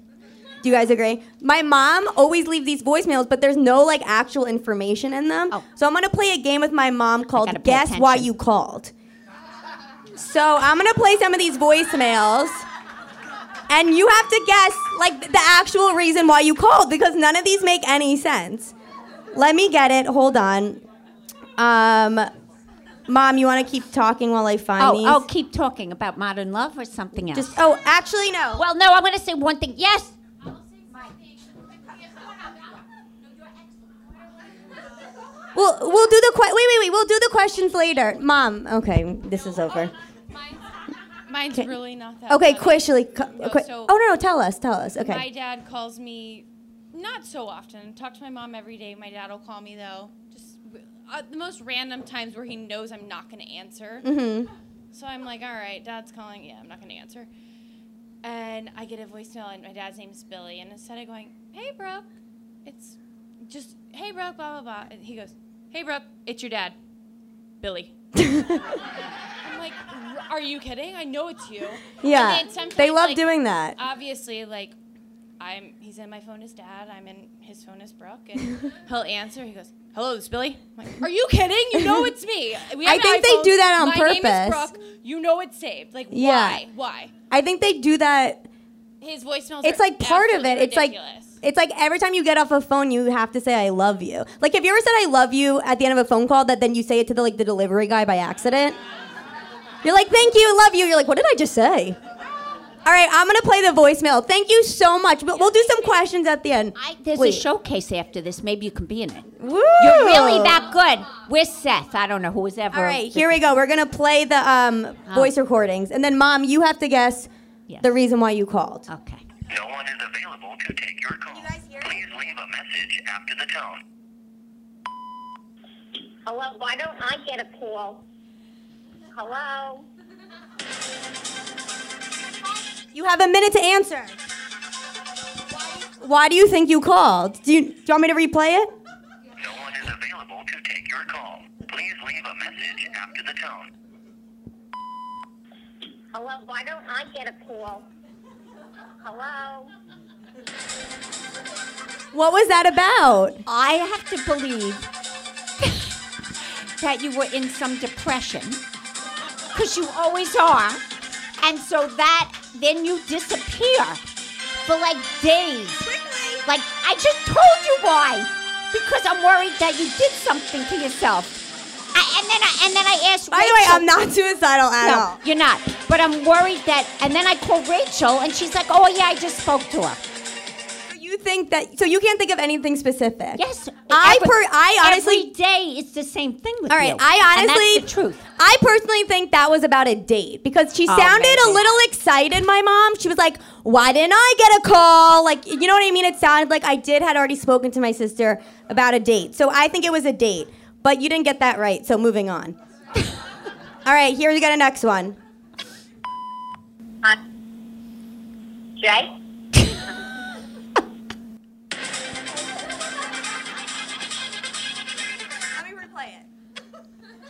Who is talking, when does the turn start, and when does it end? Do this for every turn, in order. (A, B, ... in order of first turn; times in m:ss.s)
0:00.6-0:08.9 A
0:07.3-0:08.3 B
0:10.2-0:12.7 A
0:13.7-0:18.7 A
0:19.3-0:20.8 A
0:21.6-0:22.3 A
0:23.1-0:25.2 A
0:24.8-0:27.6 B
0:27.3-0:28.6 A
0:28.6-0:30.2 B
0:35.6-0:39.9 A
0:41.3-0:43.9 C
0:42.3-0:45.3 A
0:45.0-0:54.1 C
0:54.0-0:54.5 A
0:54.9-0:57.3 C
0:58.2-1:02.1 C
1:02.6-1:06.8 C
1:07.6-1:07.9 C
1:08.2-1:08.6 A
1:09.4-1:13.2 C
1:12.0-1:13.8 A
1:13.8-1:14.8 C
1:15.4-1:27.1 C
1:21.8-1:22.1 A
1:22.8-1:24.7 A
1:26.1-1:26.6 A
1:27.3-1:28.5 A
1:29.0-1:31.4 C
1:29.6-1:38.8 A
1:39.8-1:42.0 A
1:42.8-1:47.4 A
1:46.8-1:53.4 B
1:49.4-1:50.6 A
1:52.7-1:57.3 A
1:55.1-1:55.3 B
1:57.7-1:57.9 B
1:57.8-1:58.9 A
1:58.9-1:59.2 B
1:59.5-2:03.8 D
2:01.3-2:02.0 A
2:06.3-2:08.0 E
2:09.1-2:09.9 E
2:12.9-2:14.2 A
2:16.0-2:18.7 A
2:19.4-2:23.7 D
2:26.1-2:27.9 E
2:29.0-2:29.7 E
2:32.1-2:33.4 A
2:33.5-2:34.9 B
2:36.8-2:38.6 B
2:39.5-2:40.8 B
2:41.4-2:44.0 B
2:44.6-2:45.9 B
2:45.9-2:46.4 A
2:46.5-2:51.4 B
2:51.9-2:53.9 B
2:53.3-2:55.2 A
2:54.8-3:00.0 B
3:00.9-3:05.3 A
3:03.4-3:08.2 B
3:06.7-3:22.6 A
3:10.9-3:11.7 B
3:23.8-3:25.2 A
3:28.8-3:29.1 E
3:35.6-3:36.2 A